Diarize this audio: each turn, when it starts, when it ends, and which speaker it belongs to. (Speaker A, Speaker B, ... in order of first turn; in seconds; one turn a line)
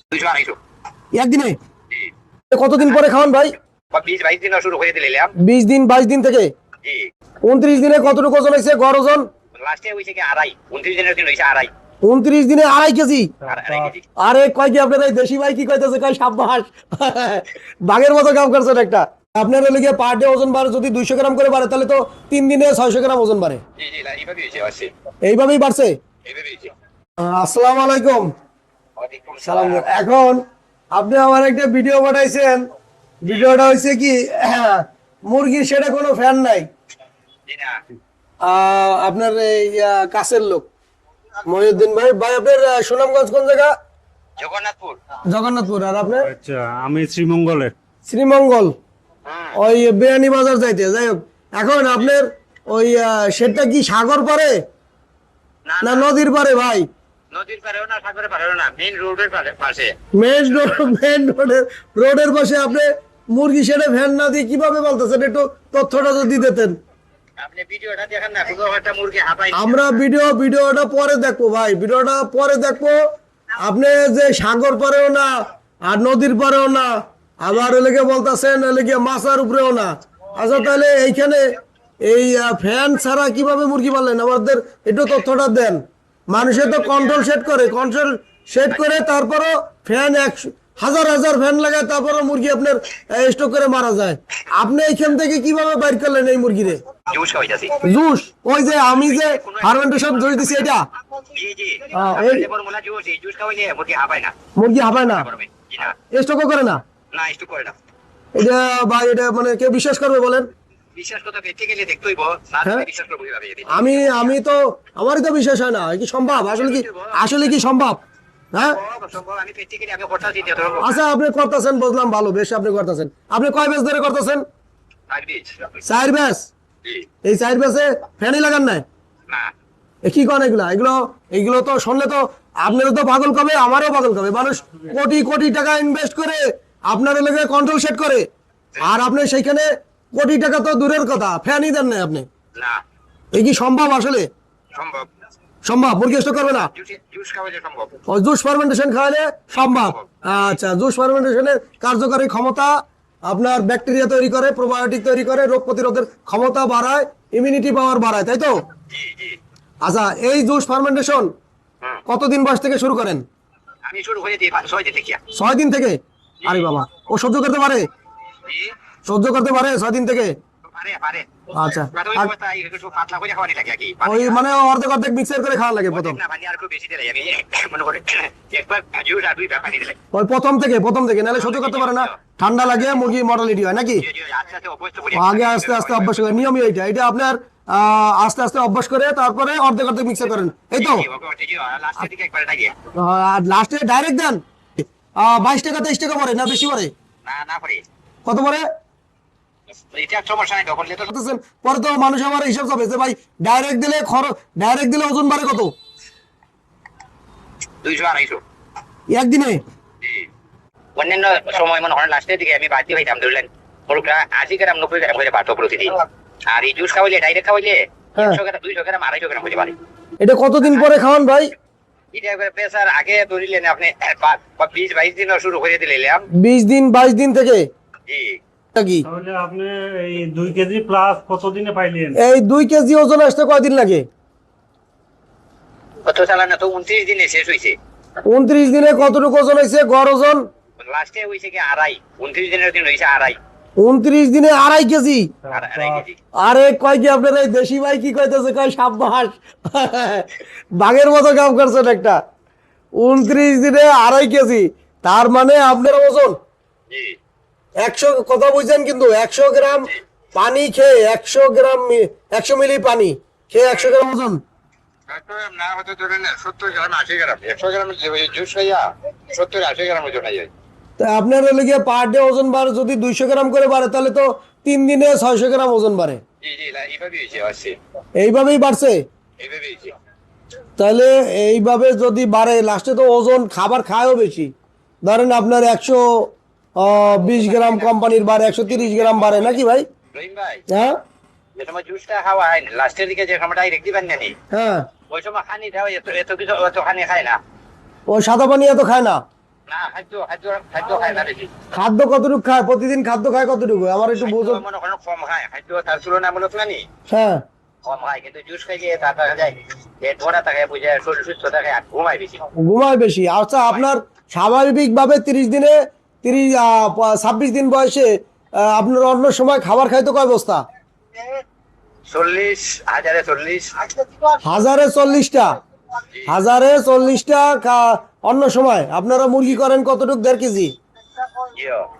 Speaker A: 0.1-0.6
Speaker B: 1.1-1.6
Speaker B: 2.5-3.5
Speaker A: 3.9-5.3
Speaker B: 5.4-6.5
Speaker A: 6.8-7.1
Speaker B: 7.4-9.3
Speaker A: 9.5-11.7
Speaker B: 12.0-13.3
Speaker C: 13.4-13.9
Speaker A: 13.5-14.0
Speaker B: 14.2-23.6
Speaker A: 23.8-24.9
Speaker B: 25.2-26.0
Speaker A: 26.2-26.7
Speaker B: 27.2-28.3
Speaker A: 29.0-30.0
Speaker B: 29.4-30.4
Speaker B: 30.9-32.6
Speaker B: 33.2-36.6
Speaker A: 37.5-37.7
Speaker B: 38.4-40.7
Speaker B: 41.5-43.7
Speaker A: 44.4-45.0
Speaker B: 45.3-46.3
Speaker C: 46.0-47.7
Speaker B: 48.0-48.7
Speaker A: 49.2-49.5
Speaker B: 49.6-54.6
Speaker A: 55.6-56.1
Speaker B: 55.8-56.8
Speaker A: 57.3-59.9
Speaker B: 60.1-66.8
Speaker A: 67.4-70.0
Speaker B: 69.5-73.0
Speaker B: 73.6-75.3
Speaker B: 75.8-81.4
Speaker A: 80.4-80.8
Speaker B: 82.0-96.8
Speaker A: 86.4-87.3
Speaker A: 88.7-89.0
Speaker A: 97.1-97.9
Speaker B: 97.7-100.8
Speaker A: 98.6-104.3
Speaker B: 101.9-102.5
Speaker B: 104.5-105.3
Speaker A: 104.9-106.0
Speaker B: 106.1-106.8
Speaker A: 107.1-107.7
Speaker B: 108.3-110.5
Speaker A: 110.9-114.4
Speaker B: 113.7-118.0
Speaker A: 116.3-117.6
Speaker A: 118.7-121.0
Speaker B: 120.8-124.4
Speaker A: 125.1-125.8
Speaker B: 125.8-126.5
Speaker B: 127.2-128.8
Speaker B: 130.0-138.2
Speaker C: 134.7-135.0
Speaker B: 138.8-142.2
Speaker B: 143.3-144.3
Speaker A: 144.7-145.1
Speaker B: 145.6-146.7
Speaker A: 146.6-147.9
Speaker B: 148.1-152.7
Speaker A: 149.6-150.2
Speaker B: 153.2-158.5
Speaker A: 158.9-159.4
Speaker B: 159.8-161.3
Speaker B: 162.1-163.2
Speaker A: 163.8-165.2
Speaker B: 165.3-167.8
Speaker A: 166.4-166.7
Speaker A: 168.4-168.7
Speaker B: 169.1-170.3
Speaker A: 170.7-174.4
Speaker B: 171.5-172.3
Speaker B: 174.0-176.2
Speaker A: 175.9-180.0
Speaker B: 180.1-184.0
Speaker A: 181.3-183.1
Speaker A: 183.9-186.5
Speaker B: 185.1-191.1
Speaker A: 190.7-192.7
Speaker B: 192.9-196.9
Speaker A: 197.2-197.8
Speaker B: 198.2-198.6
Speaker A: 199.9-201.1
Speaker B: 201.1-205.7
Speaker A: 207.8-208.4
Speaker B: 209.1-209.6
Speaker A: 211.0-219.7
Speaker B: 220.2-221.5
Speaker A: 222.1-226.2
Speaker B: 226.4-227.7
Speaker A: 228.1-228.4
Speaker B: 228.7-229.1
Speaker C: 229.0-232.2
Speaker B: 232.2-234.1
Speaker A: 236.1-237.8
Speaker B: 238.2-240.5
Speaker A: 240.8-243.4
Speaker B: 243.8-245.3
Speaker C: 245.4-246.0
Speaker A: 245.5-246.2
Speaker B: 246.4-252.2
Speaker B: 253.0-256.4
Speaker A: 256.9-257.1
Speaker B: 257.8-264.4
Speaker A: 263.6-264.0
Speaker A: 265.1-270.5
Speaker B: 271.0-276.2
Speaker A: 276.4-277.8
Speaker B: 278.2-279.0
Speaker A: 279.4-279.9
Speaker B: 280.8-284.5
Speaker B: 285.0-289.9
Speaker A: 286.9-287.9
Speaker A: 288.7-289.6
Speaker A: 290.1-290.6
Speaker B: 290.7-291.0
Speaker A: 291.6-294.3
Speaker B: 294.5-294.9
Speaker A: 295.1-297.4
Speaker B: 298.1-299.2
Speaker A: 299.7-301.5
Speaker B: 301.7-304.6
Speaker A: 304.2-306.9
Speaker B: 307.1-307.4
Speaker A: 307.8-312.4
Speaker B: 312.6-318.1
Speaker B: 318.6-320.6
Speaker A: 322.1-323.9
Speaker B: 324.4-325.5
Speaker B: 326.3-330.7
Speaker A: 331.5-331.9